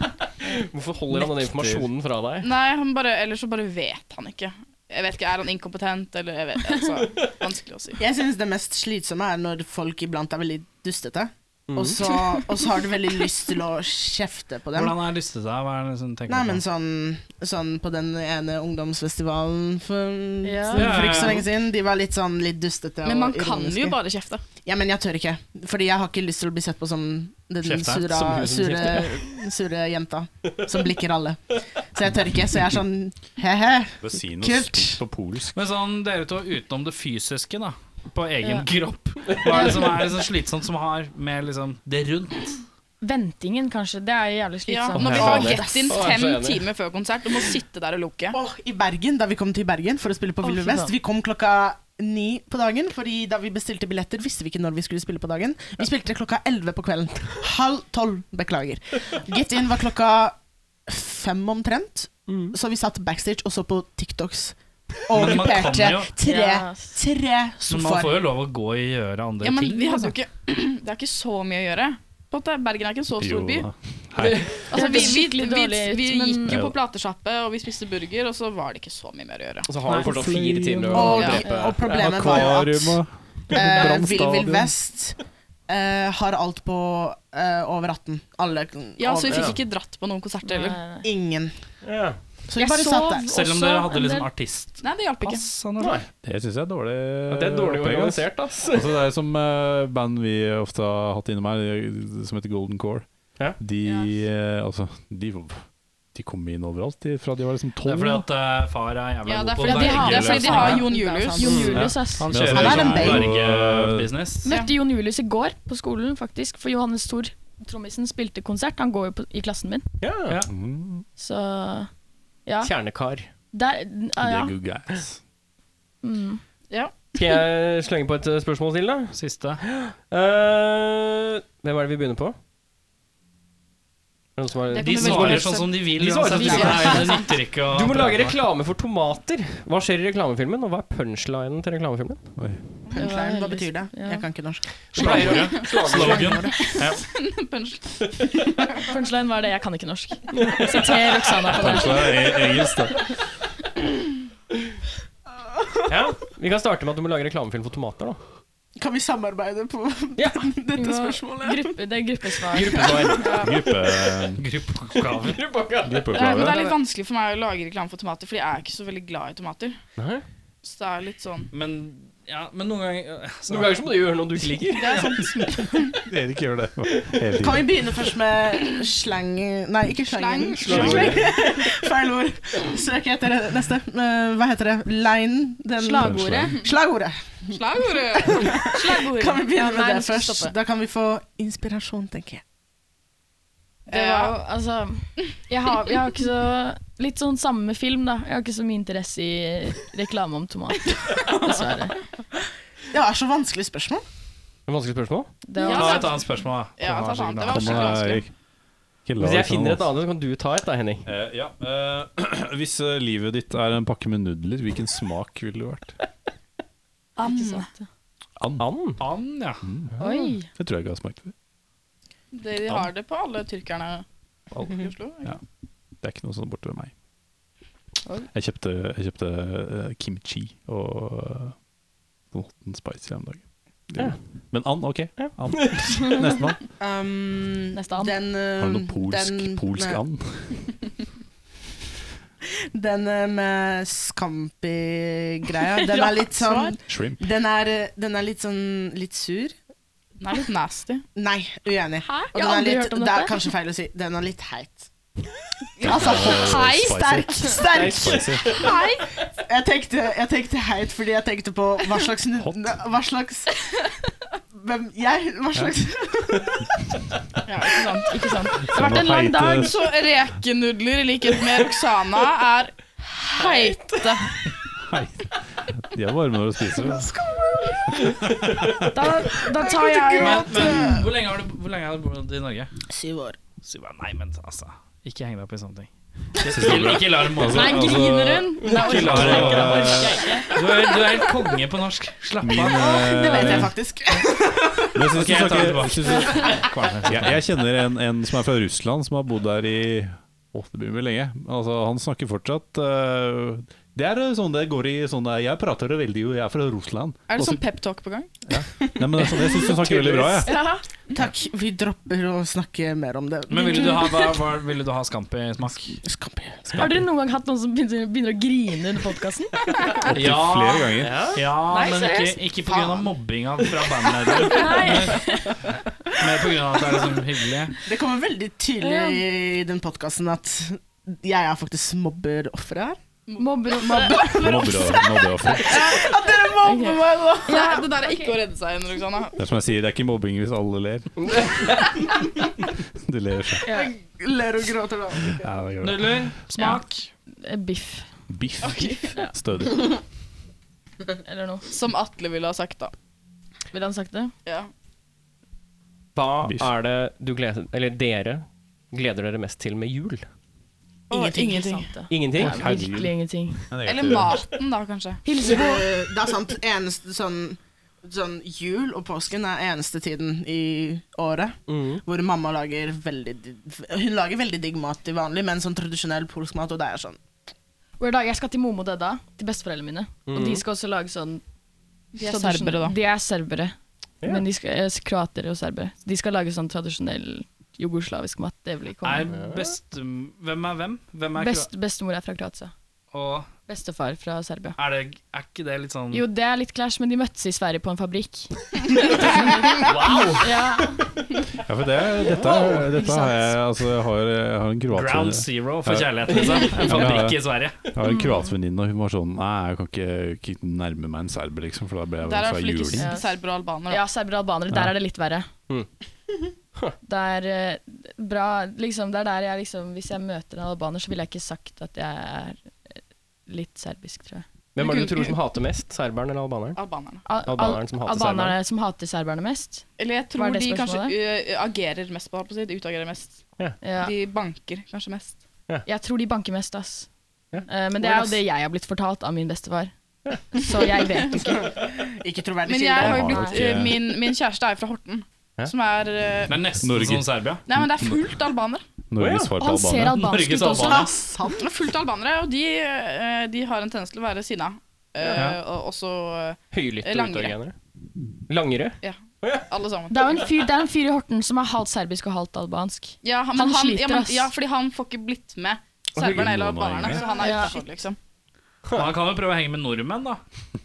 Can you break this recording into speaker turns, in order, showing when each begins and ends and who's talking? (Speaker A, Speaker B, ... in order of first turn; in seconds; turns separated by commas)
Speaker A: 0.4-2.5, Speaker B: 1.1-1.9, Speaker C: 2.4-8.0, Speaker D: 8.0-15.0, Speaker A: 11.7-12.0, Speaker E: 14.7-16.6, Speaker D: 16.3-24.0, Speaker F: 20.4-21.2, Speaker E: 20.7-21.5, Speaker C: 23.0-24.4, Speaker D: 24.6-35.0, Speaker E: 27.6-28.1, Speaker A: 28.1-29.3, Speaker B: 34.0-35.6, Speaker E: 35.5-42.6, Speaker F: 38.4-38.7, Speaker F: 39.4-40.1, Speaker F: 43.0-45.5, Speaker C: 44.6-48.4, Speaker A: 44.9-46.7, Speaker D: 45.1-46.1, Speaker D: 48.3-68.2, Speaker F: 50.4-50.9, Speaker A: 62.3-62.5, Speaker E: 65.1-66.1, Speaker F: 66.2-67.0, Speaker E: 67.7-70.1, Speaker C: 69.4-73.7, Speaker B: 73.2-74.7, Speaker A: 74.2-74.6, Speaker C: 74.7-79.7, Speaker F: 74.7-76.7, Speaker B: 76.5-76.8, Speaker A: 79.7-82.5, Speaker B: 79.9-84.7, Speaker D: 80.9-89.6, Speaker C: 81.1-81.5, Speaker C: 89.0-90.8, Speaker A: 89.3-89.6, Speaker F: 90.4-91.1, Speaker D: 91.0-91.6, Speaker A: 91.8-92.2, Speaker D: 92.5-93.3, Speaker F: 92.5-94.3, Speaker E: 93.3-96.0, Speaker C: 94.8-95.4, Speaker A: 95.8-96.1, Speaker B: 96.2-108.3, Speaker A: 97.3-99.1, Speaker C: 103.8-104.1, Speaker E: 107.8-110.8, Speaker C: 109.2-111.7, Speaker F: 109.6-112.7, Speaker D: 110.8-113.3, Speaker A: 111.4-111.8, Speaker B: 111.7-114.2, Speaker E: 112.1-114.5, Speaker F: 114.4-119.9, Speaker C: 114.5-114.7, Speaker A: 120.0-120.4, Speaker E: 120.3-120.5, Speaker B: 120.5-121.0, Speaker F: 121.2-121.9, Speaker F: 122.5-122.7, Speaker A: 122.6-123.3, Speaker F: 123.5-124.6, Speaker B: 124.2-125.2, Speaker F: 126.0-126.4, Speaker C: 126.7-126.9, Speaker A: 127.2-132.3, Speaker E: 129.1-129.7, Speaker A: 134.3-142.2, Speaker F: 134.7-135.7, Speaker E: 134.8-138.4, Speaker C: 134.8-135.6, Speaker F: 136.3-137.0, Speaker C: 136.4-137.2, Speaker D: 136.6-136.8, Speaker B: 142.4-142.6, Speaker D: 142.9-146.5, Speaker F: 142.9-144.3, Speaker E: 144.9-147.1, Speaker A: 145.1-146.4, Speaker C: 145.6-145.9, Speaker C: 146.5-148.3, Speaker F: 148.8-152.2, Speaker A: 150.3-150.9, Speaker B: 151.5-153.1, Speaker A: 152.4-152.9, Speaker A: 155.9-158.2, Speaker D: 158.8-161.8, Speaker F: 160.2-163.5, Speaker A: 162.5-163.4, Speaker D: 162.6-163.0, Speaker C: 163.2-163.5, Speaker B: 163.4-164.4, Speaker E: 164.4-165.5, Speaker A: 165.0-166.7, Speaker B: 165.8-166.6, Speaker C: 166.1-169.8, Speaker A: 170.0-170.2, Speaker C: 170.6-171.5, Speaker E: 171.5-173.9, Speaker A: 173.5-175.1, Speaker C: 174.7-175.6, Speaker B: 175.9-177.7, Speaker D: 177.4-192.4, Speaker C: 180.1-181.1, Speaker A: 180.6-181.3, Speaker B: 180.7-181.3, Speaker F: 185.8-186.6, Speaker B: 186.0-186.6, Speaker C: 187.5-188.6, Speaker F: 188.7-190.5, Speaker C: 193.9-194.3, Speaker F: 193.9-202.0, Speaker D: 202.9-204.0, Speaker A: 204.7-205.3, Speaker F: 205.4-206.3, Speaker C: 205.6-208.2, Speaker E: 205.6-208.0, Speaker B: 207.5-208.3, Speaker B: 209.0-209.9, Speaker A: 209.2-211.1, Speaker B: 211.0-216.0, Speaker F: 217.2-217.8, Speaker C: 217.2-217.7, Speaker B: 218.4-218.9, Speaker A: 218.6-219.0, Speaker E: 219.0-219.7, Speaker B: 219.6-221.3, Speaker F: 220.0-220.5, Speaker C: 222.3-224.0, Speaker C: 224.6-225.4, Speaker B: 226.0-226.9, Speaker B: 228.3-231.6, Speaker B: 232.3-236.6, Speaker A: 235.2-235.9, Speaker D: 236.8-240.0, Speaker F: 237.7-238.3, Speaker B: 238.6-240.7, Speaker D: 242.7-249.5, Speaker F: 245.7-246.5, Speaker B: 246.9-247.2, Speaker C: 250.2-251.0, Speaker D: 251.1-254.9, Speaker F: 252.0-253.5, Speaker D: 255.8-263.5, Speaker B: 255.9-258.6, Speaker F: 255.9-257.5, Speaker A: 257.7-258.6, Speaker B: 262.4-262.8, Speaker D: 264.5-266.7, Speaker C: 267.4-268.7, Speaker F: 268.1-269.8, Speaker B: 268.7-269.8, Speaker C: 269.5-274.2, Speaker A: 273.4-274.1, Speaker B: 274.8-277.1, Speaker D: 276.9-277.8, Speaker B: 278.1-278.9, Speaker F: 278.9-280.7, Speaker D: 279.6-281.1, Speaker C: 279.9-280.3, Speaker E: 280.2-282.7, Speaker D: 282.9-283.4, Speaker E: 283.6-288.0, Speaker B: 286.4-290.2, Speaker F: 287.4-290.5, Speaker E: 288.6-293.0, Speaker A: 289.5-290.4, Speaker B: 292.4-293.7, Speaker F: 292.7-293.7, Speaker D: 293.2-295.0, Speaker B: 294.9-307.6, Speaker E: 295.1-297.4, Speaker F: 296.2-296.5, Speaker C: 307.3-308.3, Speaker B: 308.5-310.6, Speaker A: 309.9-310.2, Speaker F: 310.4-310.8, Speaker D: 311.1-314.2, Speaker E: 313.5-316.0, Speaker F: 313.6-314.3, Speaker D: 316.0-316.9, Speaker F: 316.7-319.6, Speaker B: 320.1-321.2, Speaker E: 320.1-325.4, Speaker A: 321.0-321.4, Speaker F: 321.7-322.4, Speaker D: 322.6-323.1, Speaker F: 324.4-325.5, Speaker E: 326.2-327.8, Speaker D: 327.8-333.0, Speaker F: 328.8-329.2, Speaker C: 333.3-334.0, Speaker F: 333.4-338.4, Speaker D: 333.7-337.7, Speaker B: 334.4-336.0, Speaker C: 337.5-339.4, Speaker B: 339.4-341.6, Speaker A: 341.2-341.5, Speaker B: 342.9-343.6, Speaker F: 343.6-343.9, Speaker D: 343.6-345.4, Speaker B: 345.3-346.3, Speaker E: 345.7-347.1, Speaker F: 346.6-346.8, Speaker F: 347.4-348.1, Speaker B: 348.3-349.9, Speaker C: 348.6-349.1, Speaker F: 348.7-349.3, Speaker F: 351.2-351.6, Speaker C: 351.7-352.9, Speaker F: 353.7-354.3, Speaker C: 354.4-354.7, Speaker A: 356.1-360.3, Speaker B: 356.4-356.7, Speaker C: 361.1-362.0, Speaker F: 361.2-363.7, Speaker A: 362.1-362.6, Speaker B: 362.5-364.5, Speaker C: 363.8-365.2, Speaker F: 365.2-365.9, Speaker D: 365.4-377.2, Speaker A: 371.7-372.0, Speaker F: 378.0-381.4, Speaker A: 380.3-380.6, Speaker C: 382.1-383.0, Speaker F: 382.2-389.4, Speaker E: 389.0-391.7, Speaker A: 389.3-389.6, Speaker F: 391.4-392.7, Speaker E: 393.1-393.5, Speaker F: 393.7-394.8, Speaker E: 394.8-396.3, Speaker F: 396.1-401.0, Speaker E: 399.8-400.6, Speaker B: 401.6-413.1, Speaker A: 402.3-402.9, Speaker F: 402.8-403.6, Speaker E: 404.9-407.9, Speaker F: 408.0-408.5, Speaker C: 412.2-414.0, Speaker F: 412.9-415.5, Speaker F: 417.0-424.4, Speaker A: 424.7-426.8, Speaker C: 424.8-425.3, Speaker C: 426.8-427.2, Speaker F: 427.2-431.1, Speaker A: 427.4-428.6, Speaker C: 430.0-433.4, Speaker F: 433.8-434.1, Speaker C: 434.0-435.4, Speaker F: 435.8-437.1, Speaker F: 437.6-439.9, Speaker D: 438.0-438.4, Speaker F: 440.5-441.7, Speaker D: 442.0-443.4, Speaker C: 442.6-446.6, Speaker B: 443.0-444.1, Speaker E: 446.5-447.6, Speaker B: 446.8-448.1, Speaker C: 447.7-448.8, Speaker B: 449.1-450.2, Speaker A: 449.2-449.5, Speaker F: 449.6-451.1, Speaker E: 450.1-451.1, Speaker D: 450.7-451.7, Speaker C: 451.6-457.6, Speaker A: 455.2-455.5, Speaker A: 456.7-457.8, Speaker A: 458.5-459.7, Speaker C: 459.0-460.4, Speaker F: 460.1-464.5, Speaker C: 463.2-468.2, Speaker B: 466.2-467.3, Speaker F: 467.2-467.8, Speaker E: 468.9-470.4